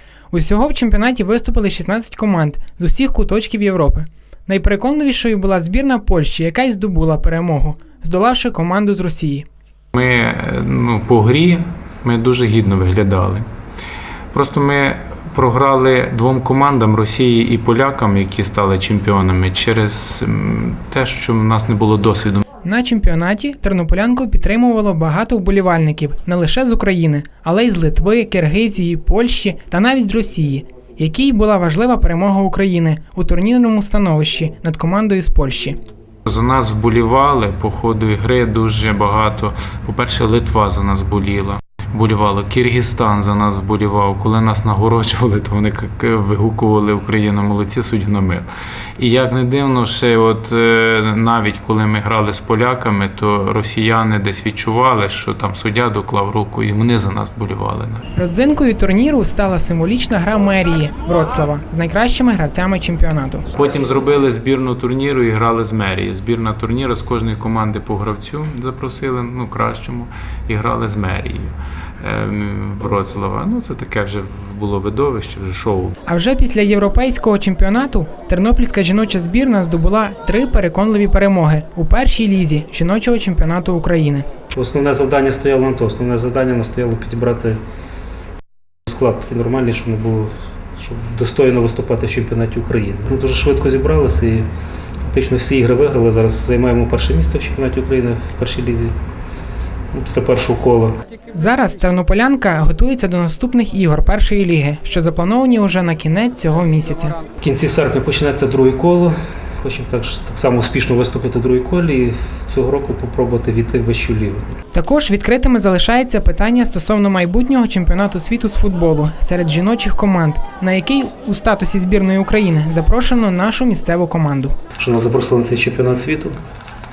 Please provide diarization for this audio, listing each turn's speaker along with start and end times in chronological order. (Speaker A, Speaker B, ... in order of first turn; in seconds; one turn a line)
Speaker A: 0.3-9.4
Speaker B: 9.9-13.4
Speaker B: 14.3-22.4
Speaker A: 22.6-35.8
Speaker B: 36.2-48.5
Speaker B: 49.0-58.0
Speaker A: 58.1-63.4
Speaker B: 63.5-76.0
Speaker A: 76.0-84.3
Speaker C: 84.5-87.6
Speaker C: 88.8-94.5
Speaker C: 95.0-98.9
Speaker C: 99.9-100.9
Speaker A: 101.3-107.2
Speaker C: 107.4-114.5
Speaker A: 114.7-124.5
Speaker C: 124.8-126.4